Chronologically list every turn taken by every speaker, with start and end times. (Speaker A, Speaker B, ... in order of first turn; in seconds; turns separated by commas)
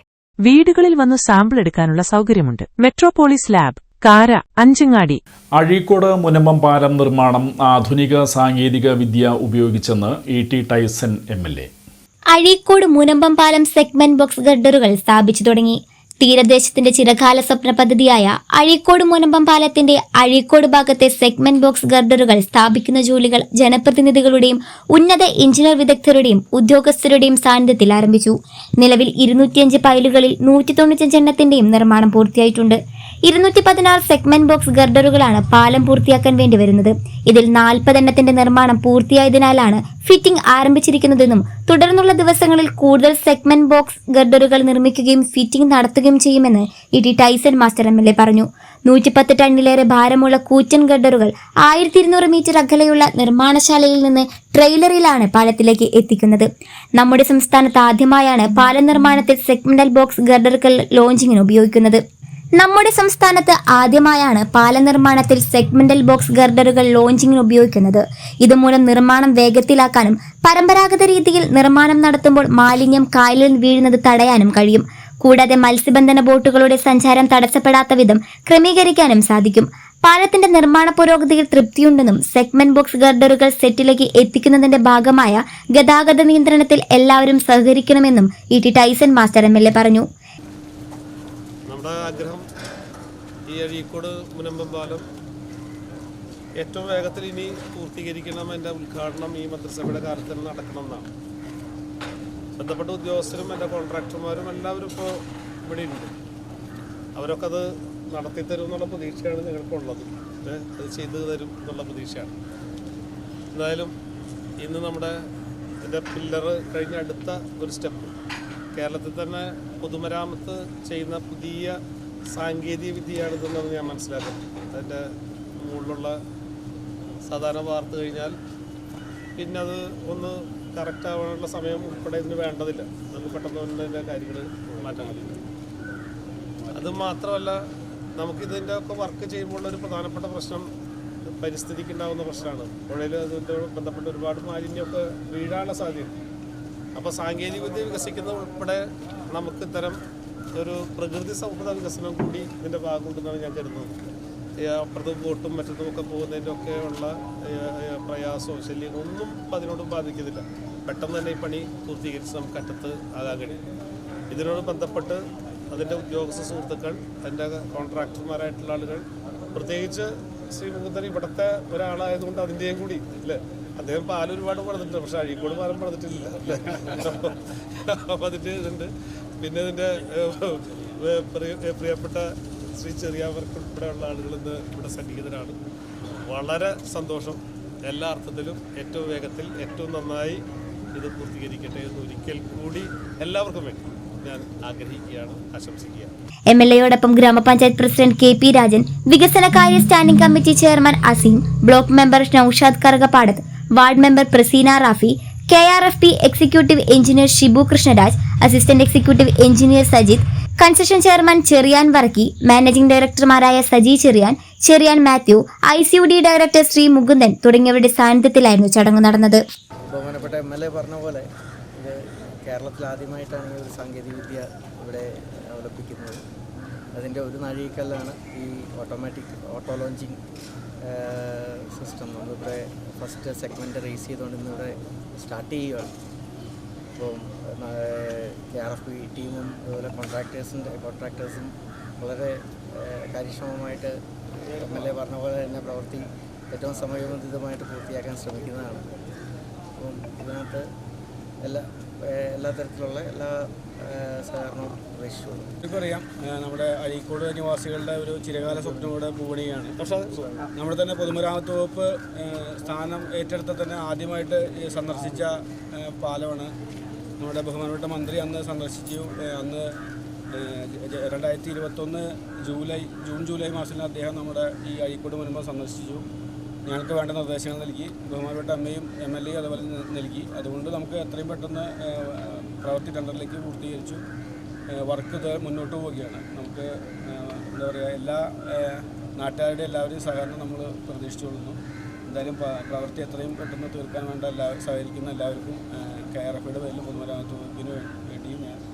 Speaker A: 0.5-5.2, Speaker B: 5.5-11.7, Speaker C: 12.3-62.0, Speaker C: 62.6-90.1, Speaker D: 91.7-92.4, Speaker D: 93.5-95.0, Speaker D: 96.6-101.1, Speaker D: 102.6-105.1, Speaker D: 105.6-106.1, Speaker D: 107.2-112.3, Speaker D: 113.5-113.9, Speaker D: 114.6-115.1, Speaker D: 115.8-118.1, Speaker D: 118.7-121.7, Speaker D: 122.3-125.0, Speaker D: 125.6-126.1, Speaker D: 127.3-128.3, Speaker D: 129.4-135.3, Speaker E: 134.9-135.3, Speaker D: 136.7-137.6, Speaker D: 138.2-140.7, Speaker D: 141.4-146.1, Speaker D: 147.0-148.8, Speaker D: 149.3-150.0, Speaker D: 150.6-154.0, Speaker D: 154.6-163.6, Speaker D: 164.3-165.2, Speaker D: 165.7-178.9, Speaker D: 179.4-182.2, Speaker D: 182.8-185.6, Speaker D: 186.3-190.4, Speaker D: 190.9-196.1, Speaker C: 196.5-219.4, Speaker F: 219.9-221.2, Speaker F: 221.8-226.2, Speaker F: 226.9-230.2, Speaker F: 230.8-235.9, Speaker F: 236.9-243.9, Speaker F: 244.5-248.9, Speaker F: 249.8-250.7, Speaker F: 251.4-255.5, Speaker E: 255.6-259.8, Speaker D: 259.8-260.3, Speaker E: 260.5-266.5, Speaker E: 267.2-269.7, Speaker E: 270.3-276.0, Speaker E: 276.6-284.0, Speaker E: 284.8-298.6